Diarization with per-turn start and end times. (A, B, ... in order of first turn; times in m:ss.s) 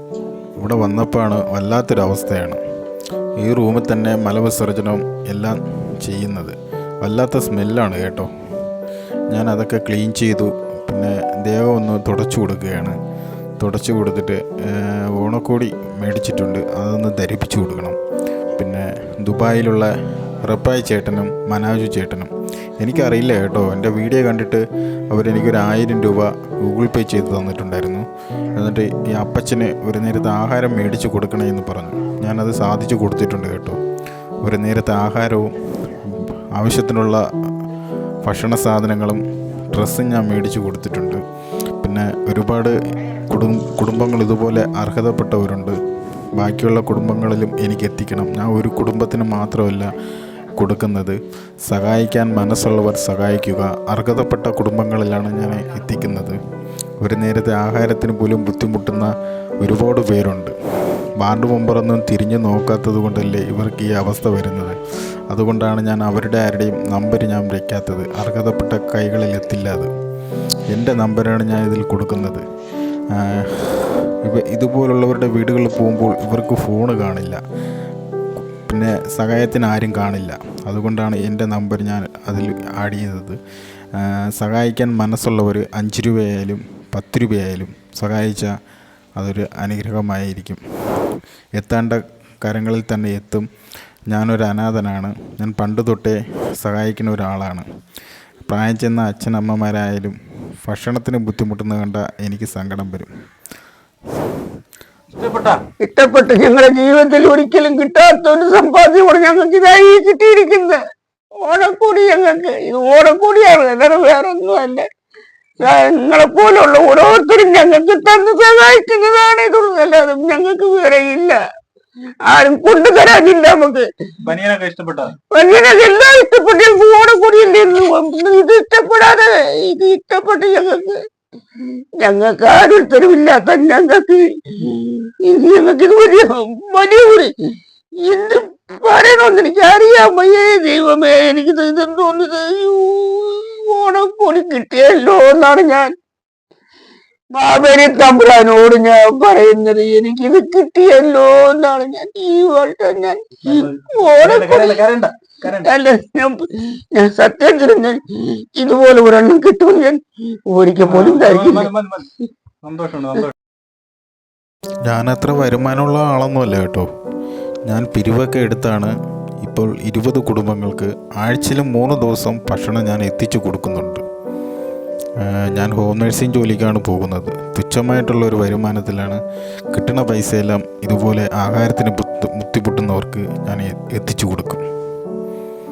0:00.6-0:02.6 A
0:03.4-0:08.3 A
0:09.3-0:13.0 A
0:13.6-0:18.0 A
0:18.5-0:19.9 A
0:20.4-0:33.8 A
0:34.4-0:37.2 A
0:38.2-0:41.2 A
0:41.8-0:45.8 A
0:46.3-0:49.9 A
0:50.6-0:56.4 A
0:57.0-1:00.5 A
1:01.2-1:04.8 A
1:05.3-1:09.9 A
1:10.7-1:12.4 A
1:13.1-1:17.4 A
1:18.6-1:23.4 A
1:23.9-1:28.5 A
1:29.2-1:33.5 A
1:34.1-1:37.6 A
1:38.4-1:43.1 A
1:45.1-1:45.6 B
1:45.8-1:50.8 C
1:51.4-1:54.8 C
1:55.6-2:01.4 C
2:02.2-2:03.9 C
2:04.2-2:05.1 B
2:05.3-2:11.0 C
2:12.0-2:17.3 C
2:18.0-2:25.9 C
2:27.3-2:34.8 C
2:33.4-2:35.7 B
2:35.5-2:41.7 C
2:40.8-2:42.1 B
2:42.6-2:43.3 B
2:44.8-2:46.9 A
2:47.6-2:54.0 A
2:55.2-2:59.2 A
2:59.7-3:04.6 A